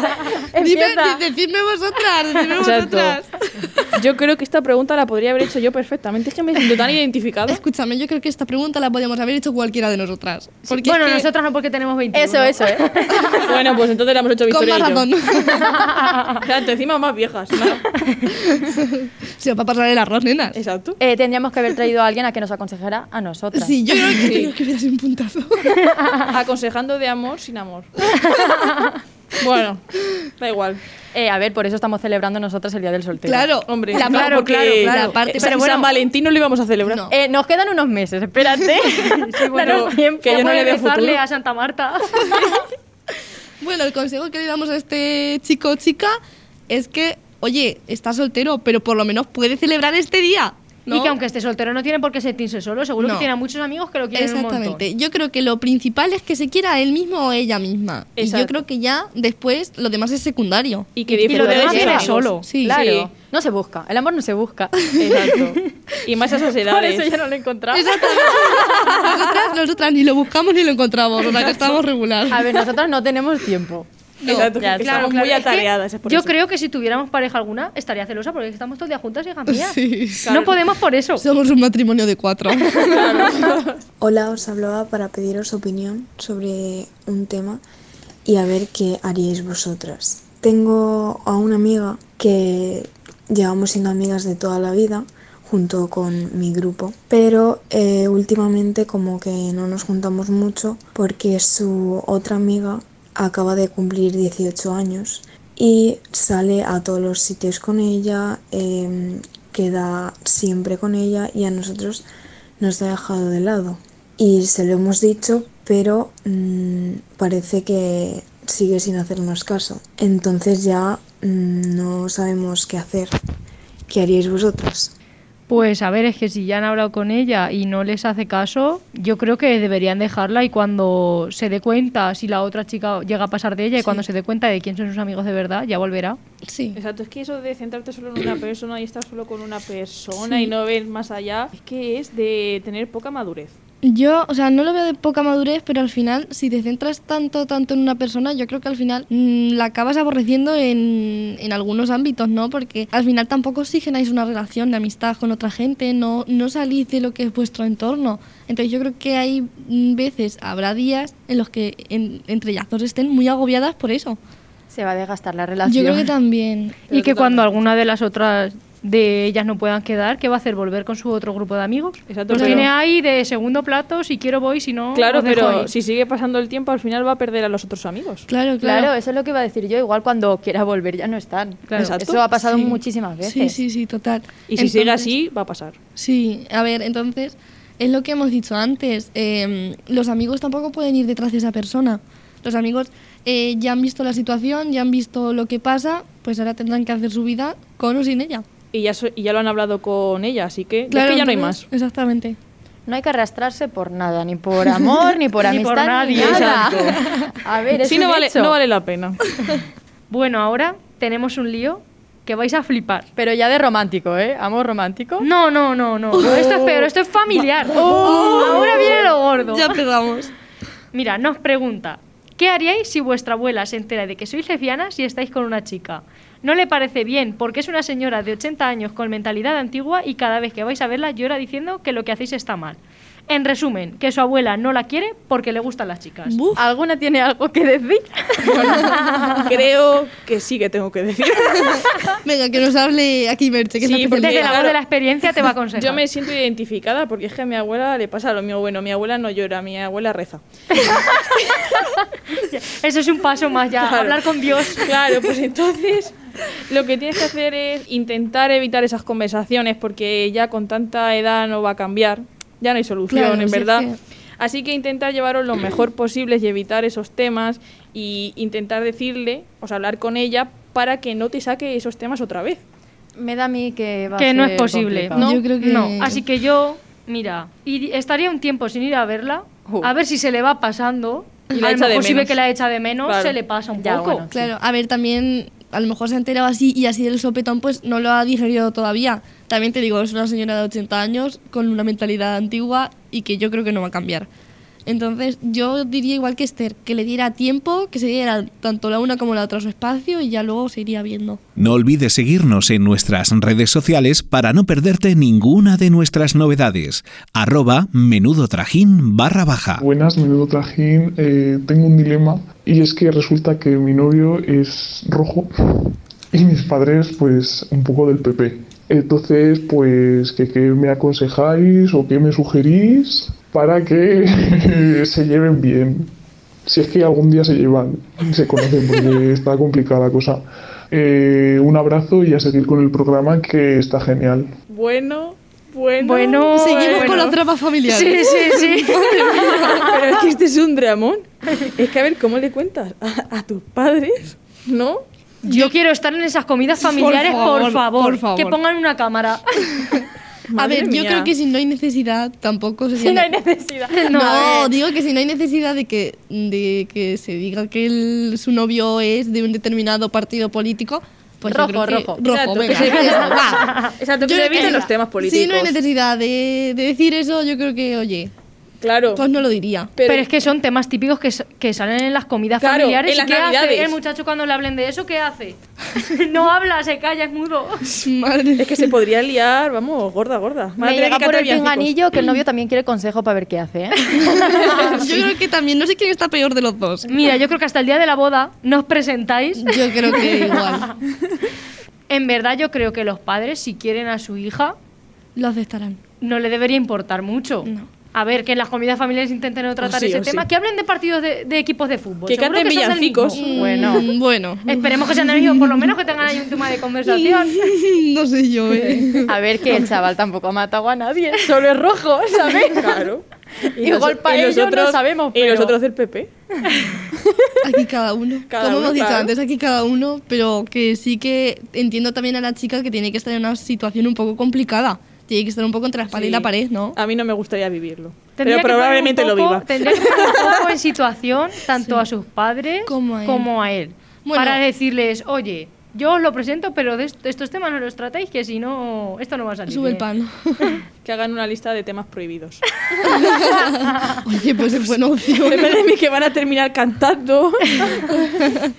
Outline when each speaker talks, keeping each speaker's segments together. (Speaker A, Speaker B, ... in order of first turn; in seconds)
Speaker A: 0.5-1.2, 12.1-13.2, 21.0-23.8, 31.1-33.5, 37.1-40.8, 61.2-65.5, 66.6-69.2, 72.3-75.2, 164.7-166.1, 178.6-183.6, 202.9-208.5, 213.2-215.3, 217.8-219.1, 236.6-238.8, 273.2-275.4, 283.8-284.5, 352.9-354.7, 361.5-362.2, 362.8-363.1, 380.8-385.2, 403.6-404.1, 409.2-413.1, 413.8-415.7
Speaker B: 0.6-3.8, 7.5-11.3, 14.5-15.9, 18.4-20.6, 23.6-25.9, 33.2-35.7, 36.9-37.1, 43.6-46.2, 46.7-51.2, 53.0-53.3, 54.1-61.0, 62.4-62.8, 67.7-72.6, 74.2-74.5, 79.5-80.3, 81.2-83.4, 136.5-136.8, 143.8-164.2, 165.7-166.8, 172.3-172.7, 178.3-178.9, 182.4-185.1, 186.0-198.4, 200.9-202.4, 216.2-216.9, 217.8-220.3, 236.3-236.6, 241.7-244.6, 263.1-264.0, 275.2-276.2, 284.3-294.3, 294.9-301.4, 336.6-339.9, 346.8-348.6, 350.6-353.3, 354.1-368.3, 369.1-369.9, 378.0-378.9, 384.6-387.1, 389.6-390.9, 395.4-396.0, 397.6-397.9, 403.3-405.9, 407.1-409.3, 417.6-427.0, 431.8-432.1, 432.9-433.5, 434.2-434.6, 439.7-440.8, 443.0-445.8, 448.2-448.7
Speaker C: 2.6-3.2, 3.9-7.6, 13.4-15.1, 16.3-17.8, 20.6-21.0, 24.1-24.5, 26.3-27.9, 29.4-29.8, 30.4-30.8, 33.7-37.1, 39.6-41.2, 58.2-58.6, 61.0-63.0, 65.0-67.1, 74.2-76.3, 80.2-80.6, 82.7-83.8, 136.8-143.6, 167.0-167.4, 172.1-172.7, 174.9-178.3, 181.8-182.2, 184.5-185.8, 198.7-201.7, 206.2-207.0, 207.8-209.2, 238.4-241.9, 243.8-244.8, 245.8-250.4, 253.8-263.9, 264.4-272.6, 281.5-282.4, 283.1-283.4, 334.7-337.4, 339.8-345.0, 350.5-351.3, 362.2-365.8, 368.8-369.2, 370.0-370.3, 372.6-374.0, 378.6-381.9, 399.8-400.4, 402.3-403.6, 412.7-416.3, 417.1-417.5, 418.5-419.3, 426.1-430.5, 441.0-442.6, 444.8-448.4
Speaker D: 10.7-13.2, 34.0-35.9, 39.1-42.6, 50.9-54.8, 61.3-62.5, 74.8-81.2, 125.5-136.2, 166.9-175.7, 181.7-181.9, 205.4-206.9, 210.1-213.1, 215.2-219.8, 220.9-236.4, 239.1-239.4, 244.2-246.0, 250.8-251.2, 252.4-254.9, 274.2-284.2, 336.0-337.4, 337.9-340.0, 345.4-349.7, 353.9-354.7, 363.6-363.9, 370.1-377.9, 387.1-390.9, 392.1-394.8, 396.2-403.5, 404.7-407.7, 428.4-440.1
Speaker E: 84.0-87.6, 88.2-112.0, 112.6-123.1, 123.9-124.9
Speaker F: 301.6-309.8
Speaker G: 309.8-326.1, 326.7-334.5